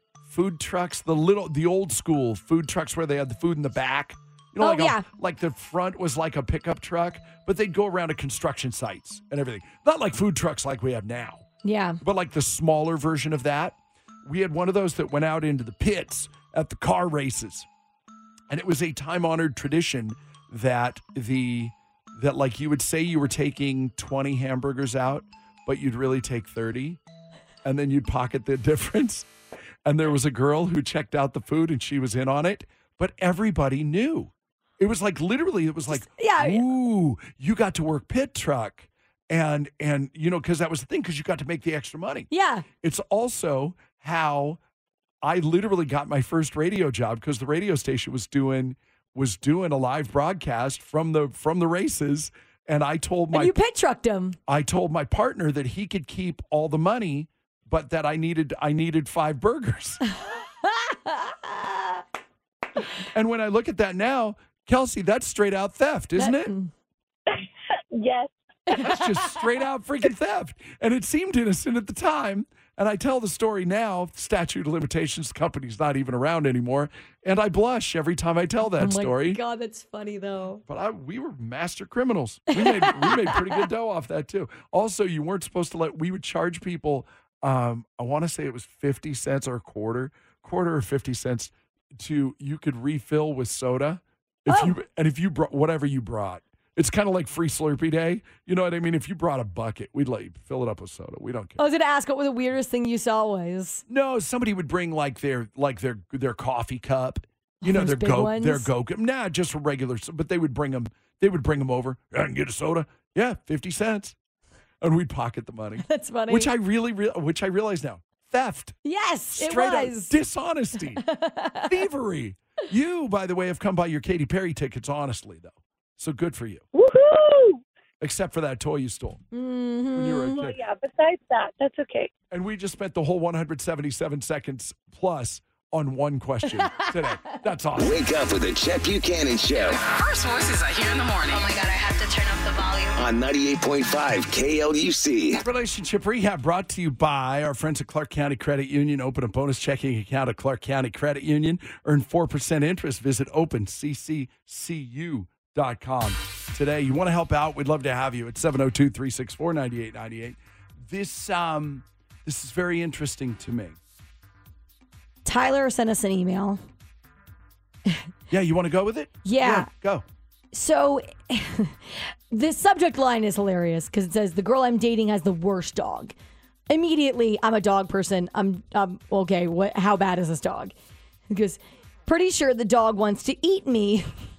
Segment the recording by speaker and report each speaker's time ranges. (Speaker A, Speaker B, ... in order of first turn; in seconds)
Speaker A: 0.2-11.4, 12.0-17.7, 18.5-27.0, 27.6-29.3, 29.9-42.3, 42.8-44.6, 45.2-53.5, 54.5-60.0, 63.1-66.5, 68.7-79.4, 80.7-101.6, 103.9-114.2, 114.8-118.8, 119.3-121.0, 121.7-126.7, 128.0-129.2, 129.9-130.6, 132.3-138.0, 145.4-163.8, 168.3-170.1
Speaker B: 4.6-5.0, 11.6-12.0, 35.9-36.6, 42.3-42.7, 53.3-54.4, 60.6-62.0, 66.2-66.7, 68.7-69.3, 78.7-80.6, 82.5-83.6, 94.5-94.8, 101.6-103.8, 107.6-108.7, 115.8-116.5, 118.8-120.1, 121.0-121.7, 129.3-130.4, 136.6-136.9, 165.2-166.6, 169.2-169.7, 170.5-176.2, 176.7-180.7, 181.3-184.1
Speaker C: 67.3-68.3, 126.7-127.6, 130.3-132.1
Speaker D: 137.8-139.8, 143.0-145.4
Speaker E: 139.7-142.9